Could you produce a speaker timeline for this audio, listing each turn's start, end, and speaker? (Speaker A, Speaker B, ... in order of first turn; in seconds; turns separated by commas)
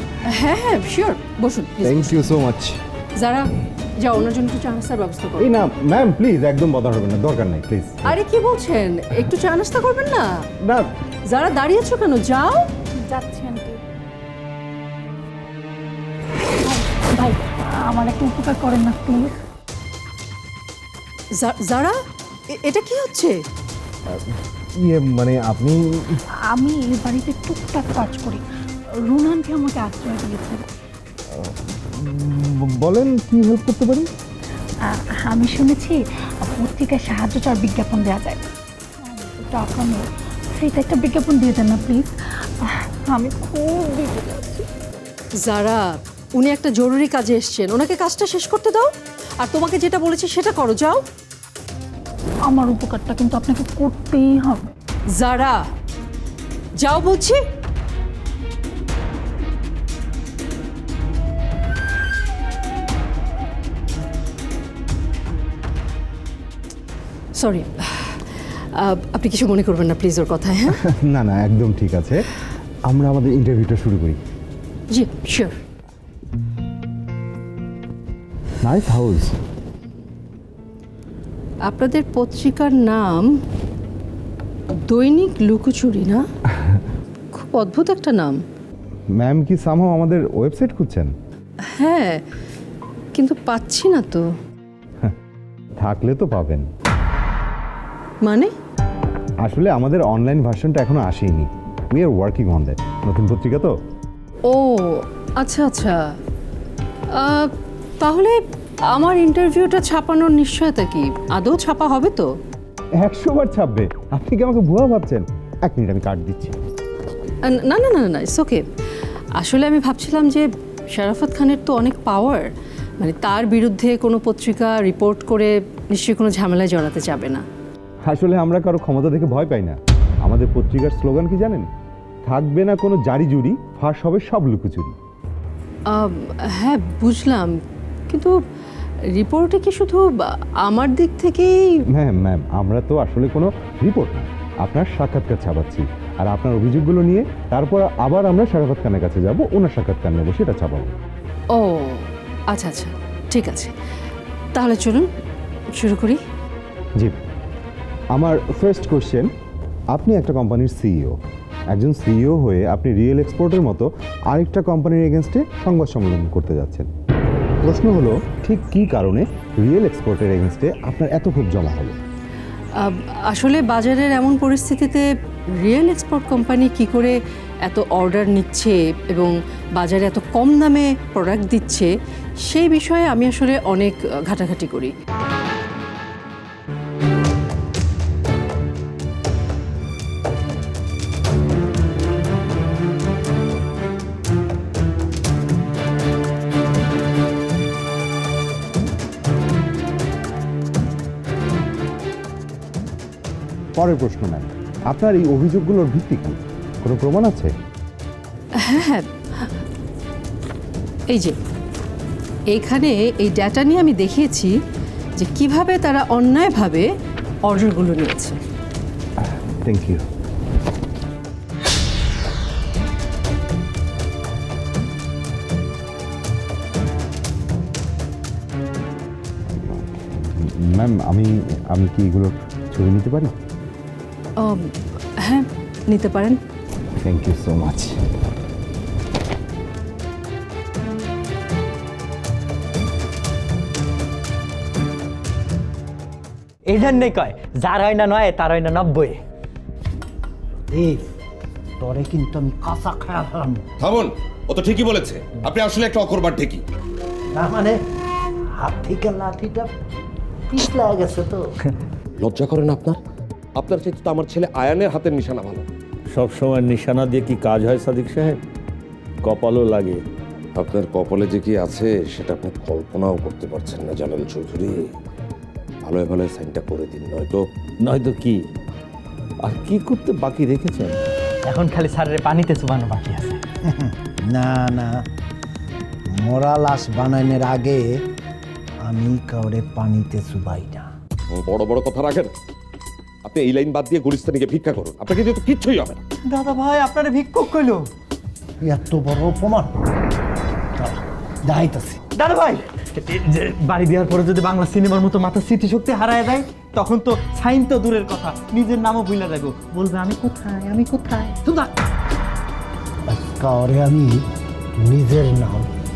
Speaker A: 0.2-2.2, Speaker B: 1.8-2.8, Speaker A: 3.2-3.5, Speaker A: 4.0-5.5, Speaker B: 5.4-8.1, Speaker A: 8.1-10.2, Speaker A: 11.3-12.7, Speaker C: 13.1-13.8, Speaker C: 16.6-19.4, Speaker A: 21.4-21.9, Speaker A: 22.6-23.4, Speaker B: 24.8-26.2, Speaker C: 26.5-28.4, Speaker C: 29.1-30.7, Speaker B: 31.3-34.1, Speaker C: 34.9-38.4, Speaker C: 39.1-44.6, Speaker A: 45.4-51.0, Speaker C: 52.5-54.6, Speaker A: 55.1-55.6, Speaker A: 56.8-57.4, Speaker A: 67.3-70.8, Speaker B: 71.0-72.2, Speaker B: 72.9-74.2, Speaker A: 74.9-75.6, Speaker B: 78.6-79.4, Speaker A: 81.7-83.3, Speaker A: 84.7-86.2, Speaker A: 87.3-88.4, Speaker B: 89.2-91.1, Speaker A: 91.7-92.2, Speaker A: 93.1-94.2, Speaker B: 95.8-96.7, Speaker A: 98.2-98.5, Speaker B: 99.4-103.7, Speaker A: 104.5-106.0, Speaker A: 107.1-107.5, Speaker A: 108.0-108.4, Speaker A: 108.9-112.3, Speaker B: 113.0-116.6, Speaker A: 117.5-118.6, Speaker A: 119.4-127.4, Speaker B: 128.1-131.7, Speaker B: 132.3-134.9, Speaker A: 135.9-137.5, Speaker A: 138.1-138.3, Speaker A: 139.1-141.7, Speaker B: 141.9-150.9, Speaker A: 151.5-153.7, Speaker A: 154.5-155.1, Speaker A: 155.8-156.2, Speaker B: 158.1-159.3, Speaker B: 159.9-161.2, Speaker B: 161.7-166.9, Speaker B: 167.6-171.9, Speaker A: 172.8-181.9, Speaker A: 182.4-184.9, Speaker B: 203.8-207.5, Speaker A: 208.6-209.5, Speaker A: 212.5-214.5, Speaker A: 215.2-216.9, Speaker A: 217.4-218.4, Speaker B: 219.4-220.0, Speaker B: 229.5-233.3, Speaker A: 234.4-234.7, Speaker A: 235.2-236.4, Speaker B: 237.0-238.0, Speaker D: 246.7-249.2, Speaker E: 250.7-251.0, Speaker E: 251.8-253.7, Speaker F: 253.8-256.6, Speaker E: 257.4-257.8, Speaker E: 258.6-259.7, Speaker E: 260.5-261.5, Speaker F: 262.2-263.0, Speaker F: 263.6-265.7, Speaker G: 266.1-268.4, Speaker G: 269.2-270.0, Speaker F: 270.6-274.8, Speaker F: 275.8-277.4, Speaker G: 277.8-278.4, Speaker G: 279.4-281.1, Speaker D: 281.5-283.4, Speaker E: 283.7-285.0, Speaker E: 286.2-287.9, Speaker E: 288.8-290.9, Speaker F: 291.3-292.3, Speaker F: 293.2-296.0, Speaker D: 296.3-297.9, Speaker E: 298.6-299.7, Speaker E: 300.8-302.0, Speaker D: 302.1-311.7, Speaker E: 313.1-314.2, Speaker E: 314.8-315.7